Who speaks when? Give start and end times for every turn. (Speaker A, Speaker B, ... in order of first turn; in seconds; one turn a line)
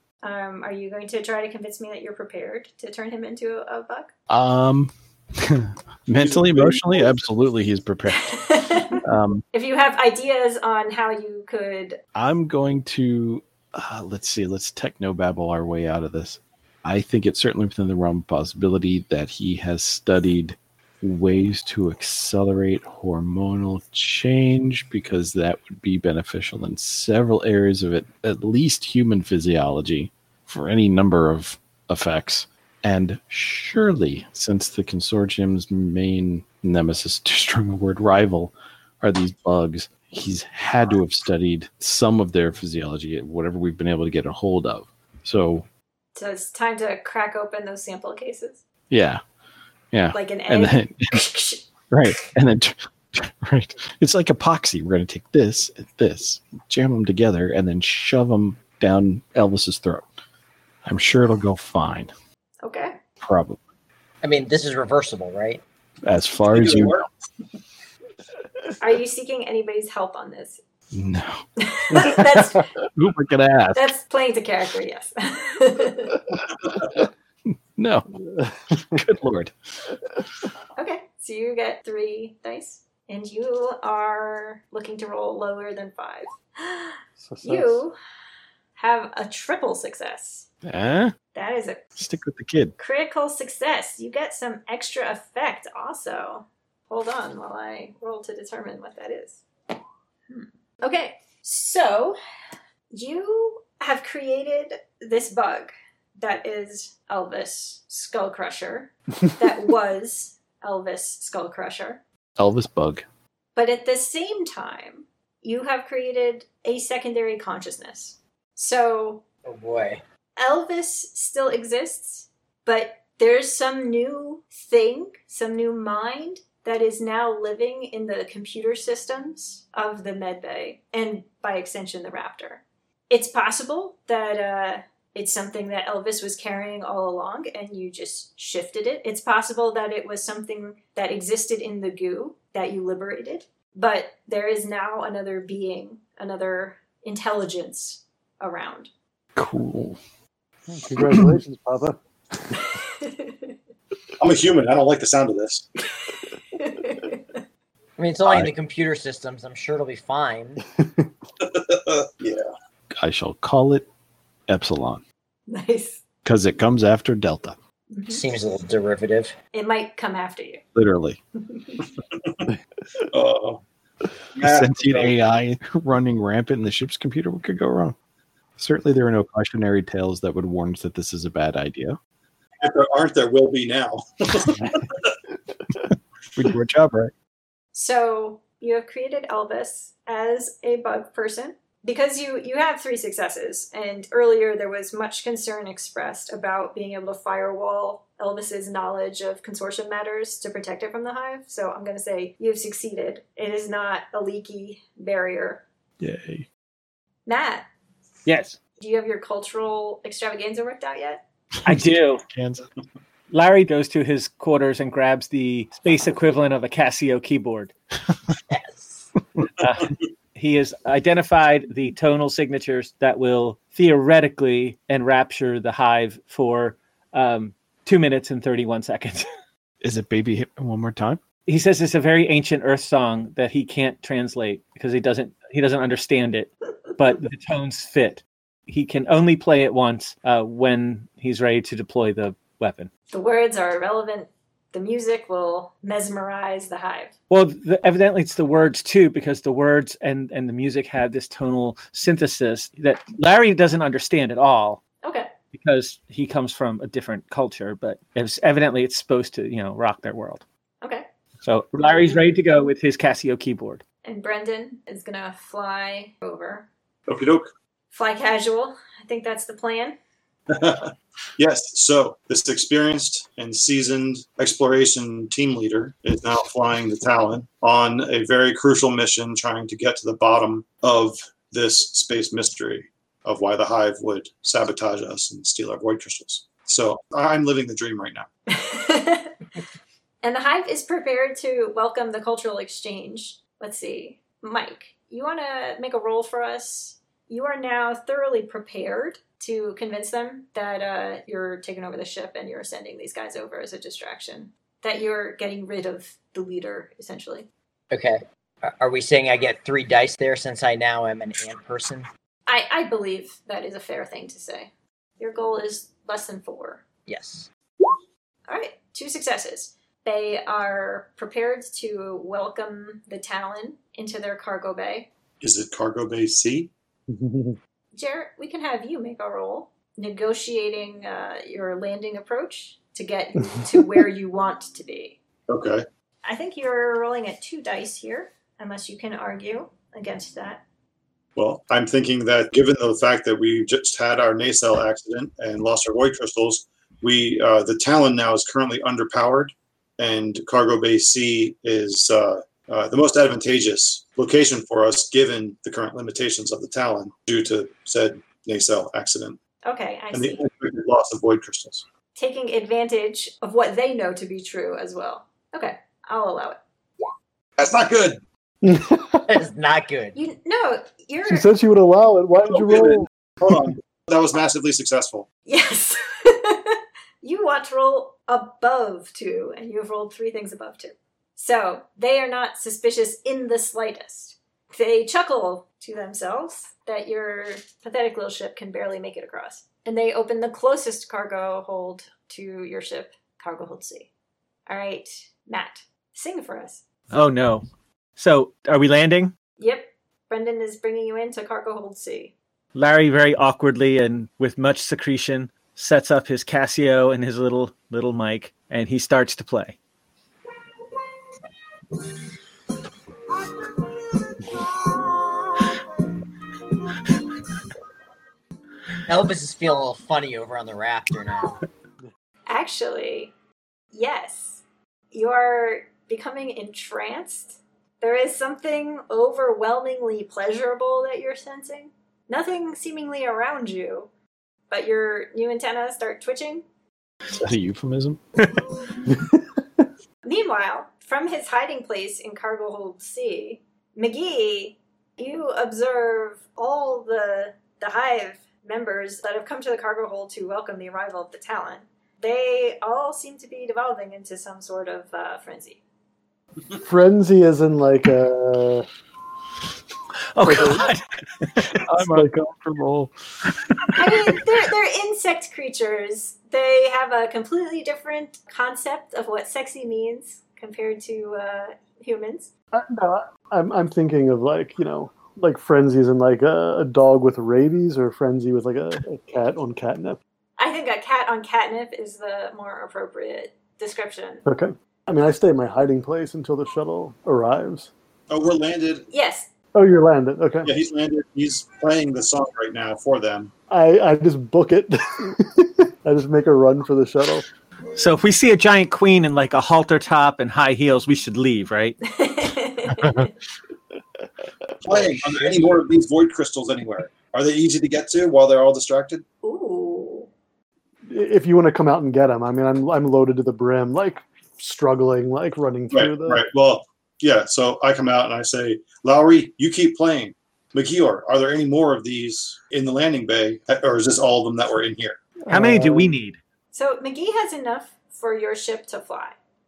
Speaker A: 0.2-4.1
Speaker B: 4.3-9.4
Speaker C: 6.2-7.2
Speaker A: 8.1-12.0
Speaker B: 12.2-45.7
Speaker A: 46.2-48.6
Speaker B: 48.9-49.2
Speaker B: 49.9-51.2
Speaker A: 50.1-51.7
Speaker B: 51.9-60.0
Speaker B: 60.9-62.1
Speaker A: 62.6-63.0
Speaker B: 63.2-63.6
Speaker D: 64.2-65.6
Speaker B: 66.0-67.1
Speaker C: 66.5-67.0
Speaker A: 68.8-70.6
Speaker B: 70.9-71.4
Speaker A: 71.6-72.7
Speaker B: 71.9-72.3
Speaker B: 73.0-73.9
Speaker A: 73.7-76.2
Speaker B: 76.3-77.0
Speaker B: 77.8-78.1
Speaker E: 78.3-79.0
Speaker B: 78.9-79.5
Speaker A: 80.8-88.0
Speaker E: 87.2-87.8
Speaker A: 88.8-90.5
Speaker B: 90.6-91.1
Speaker A: 91.3-91.8
Speaker B: 92.0-92.7
Speaker A: 92.8-99.4
Speaker A: 100.3-102.2
Speaker A: 102.9-112.0
Speaker B: 112.4-113.0
Speaker A: 113.6-119.2
Speaker D: 119.5-120.0
Speaker A: 120.4-148.9
Speaker B: 149.4-150.0
Speaker E: 150.7-152.0
Speaker A: 152.6-153.5
Speaker C: 154.2-155.7
Speaker A: 156.0-157.4
Speaker D: 158.0-160.6
Speaker E: 160.8-161.1
Speaker C: 161.4-162.4
Speaker B: 162.9-163.9
Speaker B: 164.5-165.0
Speaker A: 165.5-166.0
Speaker B: 166.2-167.6
Speaker A: 167.9-168.2
Speaker D: 168.1-169.3
Speaker A: 169.5-170.6
Speaker B: 170.8-171.2
Speaker A: 171.5-171.8
Speaker C: 173.1-173.6
Speaker C: 174.3-175.2
Speaker B: 174.4-178.0
Speaker B: 178.6-182.0
Speaker C: 182.6-184.8
Speaker B: 184.6-184.9
Speaker B: 185.8-187.1
Speaker A: 187.7-205.6
Speaker B: 206.0-206.5
Speaker A: 207.3-207.7
Speaker F: 208.3-208.6
Speaker A: 208.8-211.2
Speaker F: 211.7-212.2
Speaker B: 211.7-212.7
Speaker F: 213.3-217.7
Speaker D: 218.5-219.1
Speaker F: 219.6-229.3
Speaker B: 229.8-231.2
Speaker F: 231.5-242.9
Speaker A: 243.1-247.1
Speaker F: 247.3-254.8
Speaker A: 255.0-255.3
Speaker F: 255.5-260.4
Speaker F: 261.4-263.8
Speaker A: 264.0-266.7
Speaker C: 267.1-267.5
Speaker A: 267.9-270.0
Speaker C: 270.5-288.3
Speaker A: 288.5-289.3
Speaker A: 290.2-307.5
Speaker D: 307.9-312.1
Speaker A: 312.5-316.8
Speaker D: 317.1-317.5
Speaker A: 318.5-325.1
Speaker C: 325.4-326.7
Speaker E: 327.1-327.6
Speaker A: 327.9-335.2
Speaker E: 333.5-334.0
Speaker C: 335.5-335.9
Speaker A: 336.2-340.6
Speaker C: 341.4-359.4
Speaker A: 359.6-360.4
Speaker C: 360.1-361.8
Speaker A: 362.1-366.6
Speaker C: 367.6-368.2
Speaker E: 368.6-369.4
Speaker D: 369.3-370.2
Speaker A: 370.1-371.5
Speaker E: 371.3-373.1
Speaker C: 372.5-375.3
Speaker A: 375.5-394.1
Speaker A: 394.7-396.9
Speaker F: 397.1-397.7
Speaker F: 398.2-399.3
Speaker A: 399.6-402.4
Speaker F: 402.8-409.8
Speaker D: 419.1-421.6
Speaker A: 422.5-423.3
Speaker A: 423.9-434.1
Speaker A: 434.7-436.6
Speaker B: 437.4-438.4
Speaker A: 440.2-455.8
Speaker E: 456.8-458.9
Speaker F: 460.3-461.1
Speaker E: 460.4-460.9
Speaker B: 461.4-464.4
Speaker E: 461.9-462.3
Speaker A: 463.9-472.5
Speaker E: 472.7-480.2
Speaker A: 480.6-484.5
Speaker E: 484.5-487.9
Speaker C: 488.3-489.1
Speaker A: 489.1-489.5
Speaker E: 489.7-490.7
Speaker C: 490.6-493.5
Speaker E: 493.7-497.4
Speaker F: 498.0-502.0
Speaker A: 502.1-503.3
Speaker B: 502.9-503.3
Speaker C: 504.9-509.2
Speaker B: 504.9-505.6
Speaker A: 509.4-510.3
Speaker E: 511.1-516.4
Speaker C: 515.9-525.2
Speaker E: 525.4-526.1
Speaker F: 525.5-526.4
Speaker A: 526.7-529.4